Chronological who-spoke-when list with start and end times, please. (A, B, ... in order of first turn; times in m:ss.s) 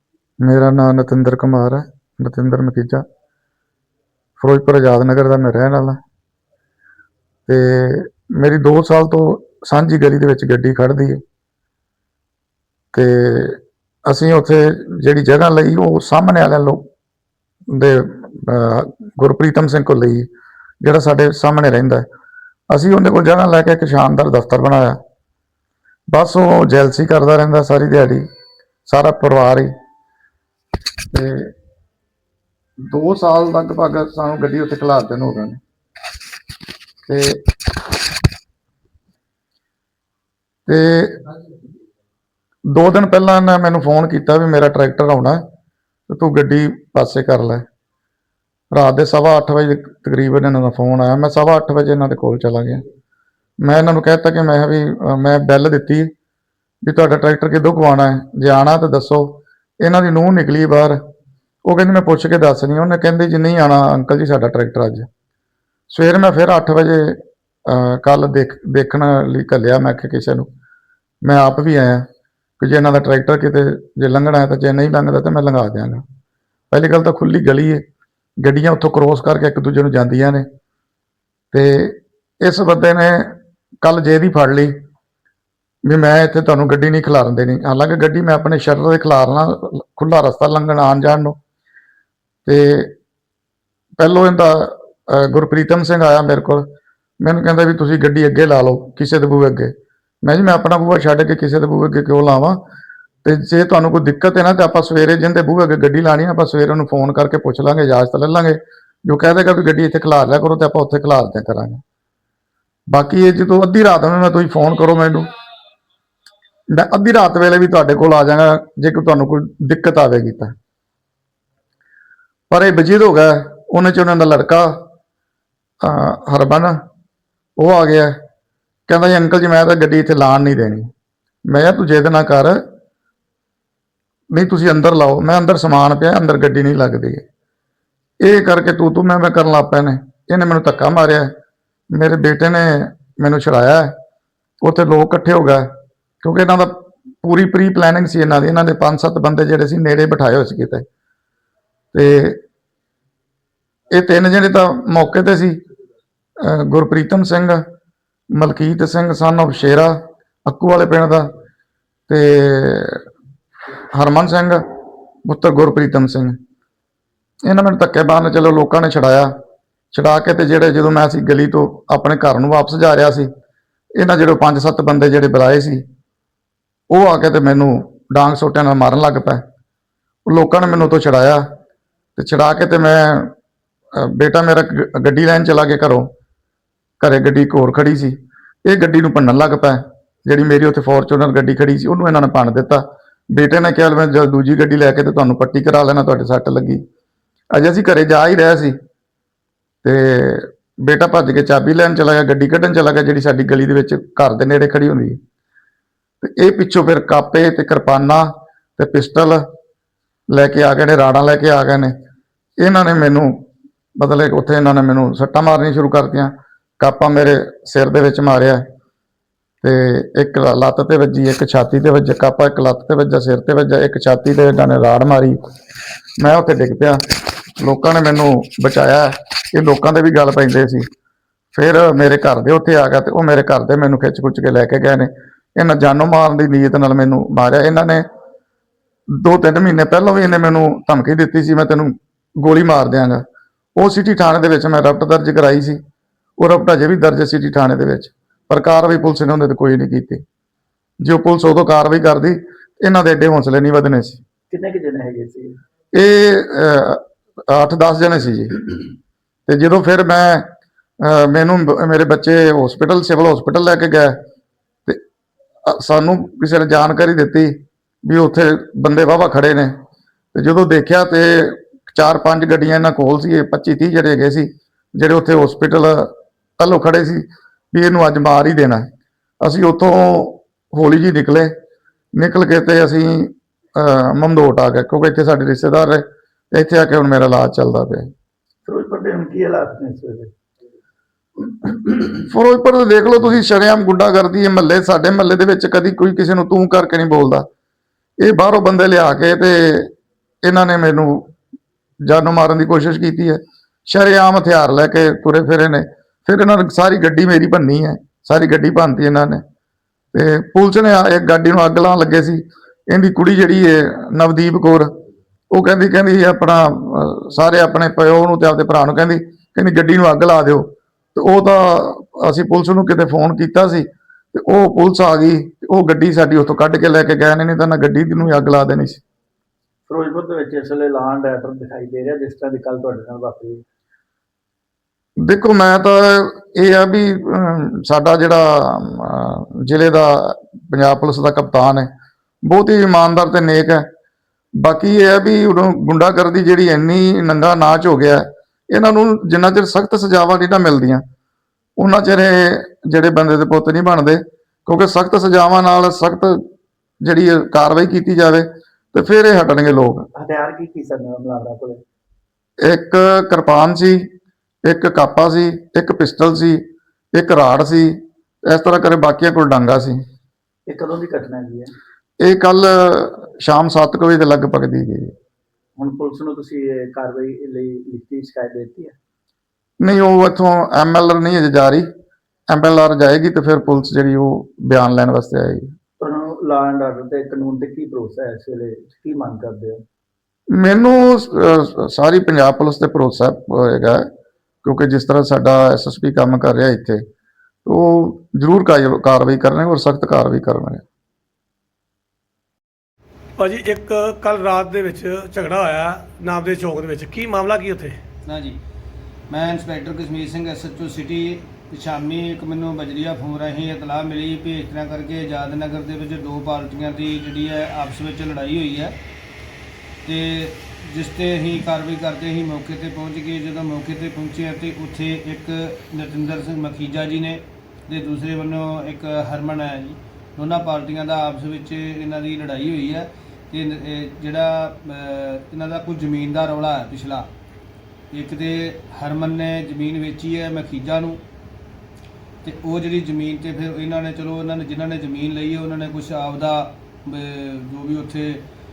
0:00.4-0:03.0 A
0:04.4-0:06.0 A
0:07.5-0:11.2 A
0:12.9-0:16.8 A
0:17.7-0:20.3 A
0:20.8-0:22.0 A
0:22.7-0:25.0 A
0:26.1-0:28.2 A
0:28.9-0:29.7 A
0:31.1-0:31.5 A
0:32.9-0:35.6 A
0:37.0-0:37.4 A
0:40.7-0:41.2 A
0:42.7-0:45.4 A
0:46.1-0:47.6 A
0:48.7-0:52.8 A
0:53.6-0:56.1 A
0:56.8-1:01.0 A
1:01.6-1:05.1 A
1:05.9-1:10.5 A
1:11.2-1:12.0 A
1:12.6-1:16.0 A
1:16.7-1:17.8 A
1:18.4-1:20.4 A
1:21.5-1:24.7 A
1:25.8-1:31.4 A
1:32.4-1:32.9 A
1:34.0-1:36.6 A
1:37.2-1:39.7 A
1:40.2-1:42.6 A
1:43.2-1:51.8 A
1:52.9-1:55.3 A
1:56.7-2:00.5 A
2:02.5-2:04.8 A
2:05.8-2:06.8 A
2:07.6-2:08.1 A
2:08.9-2:10.9 A
2:11.5-2:12.6 A
2:14.3-2:17.2 A
2:18.2-2:21.3 A
2:21.9-2:23.9 A
2:24.6-2:25.6 A
2:26.2-2:30.8 A
2:31.9-2:32.4 A
2:33.9-2:35.6 A
2:36.4-2:37.6 A
2:38.3-2:41.3 A
2:42.1-2:43.0 A
2:43.9-2:44.6 A
2:45.2-2:46.3 A
2:47.4-2:49.3 A
2:49.9-2:53.3 A
2:54.0-2:55.8 A
2:56.9-2:59.4 A
3:00.3-3:01.4 A
3:02.2-3:03.3 A
3:03.9-3:06.1 A
3:07.0-3:16.8 A
3:17.5-3:18.7 A
3:19.8-3:25.2 A
3:26.2-3:29.4 A
3:30.3-3:31.9 A
3:32.6-3:33.4 A
3:34.0-3:38.6 A
3:39.6-3:45.4 A
3:46.2-3:47.0 A
3:47.6-3:50.8 A
3:51.5-3:58.0 A
3:59.1-4:03.2 A
4:03.8-4:05.8 A
4:06.4-4:10.2 A
4:11.0-4:14.2 A
4:14.5-4:15.6 B
4:15.9-4:18.7 A
4:19.5-4:20.4 A
4:21.0-4:24.2 A
4:25.6-4:29.7 A
4:30.3-4:38.8 A
4:39.4-4:41.5 A
4:42.2-4:48.1 A
4:48.6-4:50.3 B
4:52.2-4:57.4 A
4:58.2-4:59.9 A
5:00.4-5:01.3 A
5:02.0-5:09.4 A
5:10.1-5:14.9 A
5:15.5-5:29.0 A
5:29.9-5:33.6 B
5:35.2-5:41.9 A
5:42.4-5:43.8 A
5:44.6-5:51.0 A
5:51.8-5:56.4 A
5:57.0-6:00.1 A
6:00.1-6:01.8 B
6:02.6-6:04.0 A
6:04.6-6:10.0 A
6:10.7-6:11.7 B
6:12.2-6:15.1 A
6:15.8-6:19.0 B
6:19.8-6:21.8 A
6:22.5-6:25.7 A
6:26.0-6:29.8 B
6:30.5-6:34.0 A
6:34.6-6:37.0 A
6:37.6-6:40.8 A
6:43.4-6:48.0 C
6:48.2-6:48.6 D
6:49.3-6:58.9 D
7:00.0-7:17.3 D
7:18.1-7:21.2 D
7:22.4-7:28.4 D